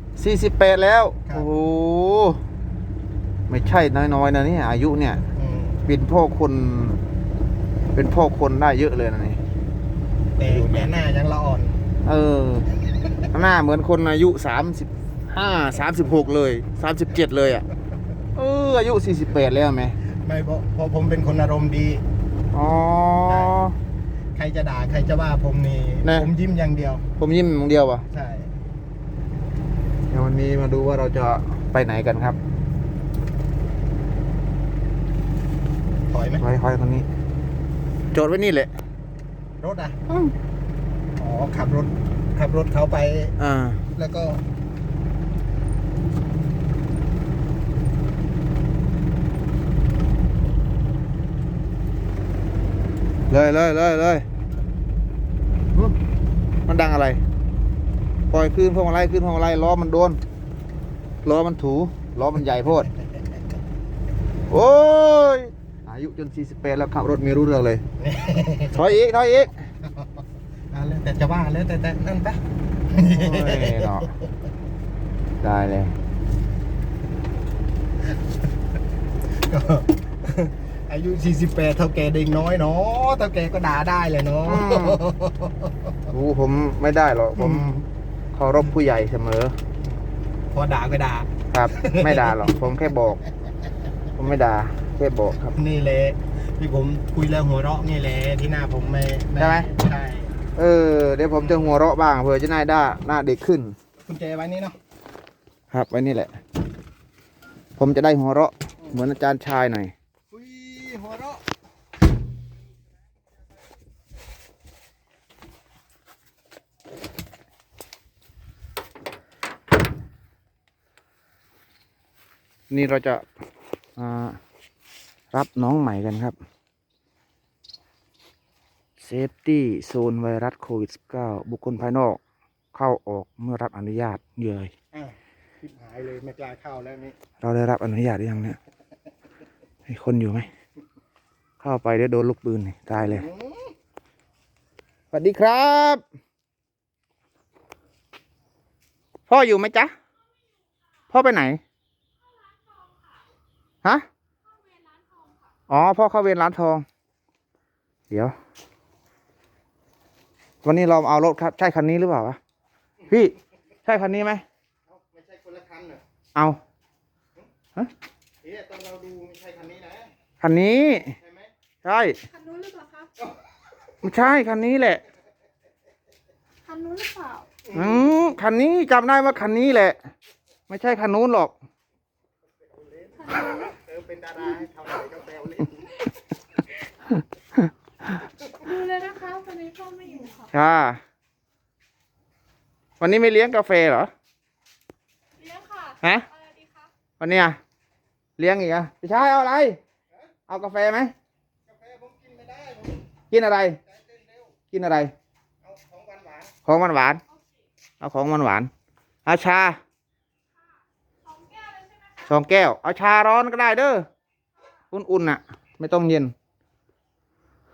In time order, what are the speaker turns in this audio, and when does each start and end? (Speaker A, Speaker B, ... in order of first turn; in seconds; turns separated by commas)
Speaker A: 0.2-2.4, Speaker A: 3.5-5.2, Speaker B: 5.4-5.8, Speaker A: 5.9-7.0, Speaker A: 8.0-9.4, Speaker B: 10.4-11.8, Speaker A: 10.4-10.9, Speaker A: 12.1-12.7, Speaker A: 13.3-17.7, Speaker A: 18.4-20.0, Speaker B: 20.1-22.0, Speaker A: 22.5-23.8, Speaker B: 23.3-23.6, Speaker B: 24.4-27.1, Speaker A: 27.2-28.1, Speaker B: 28.1-28.5, Speaker A: 30.1-32.4, Speaker B: 36.1-36.4, Speaker A: 36.4-37.1, Speaker A: 38.1-38.7, Speaker B: 39.6-40.0, Speaker A: 40.1-40.3, Speaker B: 41.2-43.4, Speaker A: 43.4-43.8, Speaker B: 43.9-44.4, Speaker A: 53.3-54.3, Speaker A: 56.7-57.2, Speaker A: 58.3-60.2, Speaker A: 61.2-62.9, Speaker A: 64.5-67.8, Speaker B: 68.0-68.8, Speaker A: 68.7-69.5, Speaker B: 70.7-74.2, Speaker A: 73.0-74.1, Speaker A: 75.4-76.0, Speaker B: 79.4-86.0, Speaker A: 84.5-85.0, Speaker A: 86.1-89.5, Speaker B: 87.4-87.7, Speaker B: 89.8-92.5, Speaker A: 91.5-93.2, Speaker A: 94.2-95.5, Speaker B: 95.5-100.3, Speaker A: 99.4-99.7, Speaker A: 100.6-103.8, Speaker B: 101.4-101.8, Speaker B: 104.0-104.8, Speaker A: 105.7-106.3, Speaker A: 107.8-109.9, Speaker B: 110.3-111.4, Speaker A: 122.7-123.2, Speaker A: 124.0-124.4, Speaker A: 125.3-126.4, Speaker A: 129.0-132.2, Speaker A: 132.7-134.7, Speaker B: 134.9-137.2, Speaker A: 137.4-138.6, Speaker A: 139.9-140.5, Speaker A: 141.6-143.2, Speaker B: 142.9-143.7, Speaker A: 145.1-146.0, Speaker A: 149.3-149.9, Speaker A: 151.1-151.6, Speaker C: 152.4-153.2, Speaker C: 154.5-155.4, Speaker A: 155.7-156.8, Speaker A: 158.1-158.3, Speaker A: 160.6-162.4, Speaker A: 163.1-163.3, Speaker A: 163.9-164.4, Speaker B: 164.9-166.0, Speaker B: 168.4-170.1, Speaker A: 170.4-171.2, Speaker B: 171.2-171.5, Speaker A: 171.8-172.2, Speaker C: 172.3-173.1, Speaker A: 174.0-175.0, Speaker C: 176.7-177.5, Speaker A: 177.7-180.0, Speaker A: 180.7-181.5, Speaker B: 183.0-186.1, Speaker C: 188.6-190.5, Speaker A: 190.5-191.0, Speaker A: 193.0-194.1, Speaker C: 195.4-196.9, Speaker A: 196.0-196.3, Speaker A: 197.2-197.6, Speaker A: 198.4-199.8, Speaker A: 200.5-201.1, Speaker B: 201.7-203.0, Speaker A: 203.3-203.8, Speaker B: 203.9-204.5, Speaker A: 204.7-205.1, Speaker B: 205.6-206.5, Speaker A: 206.7-207.2, Speaker A: 208.0-208.7, Speaker A: 209.3-209.8, Speaker C: 211.3-212.2, Speaker A: 212.2-214.1, Speaker A: 214.9-216.3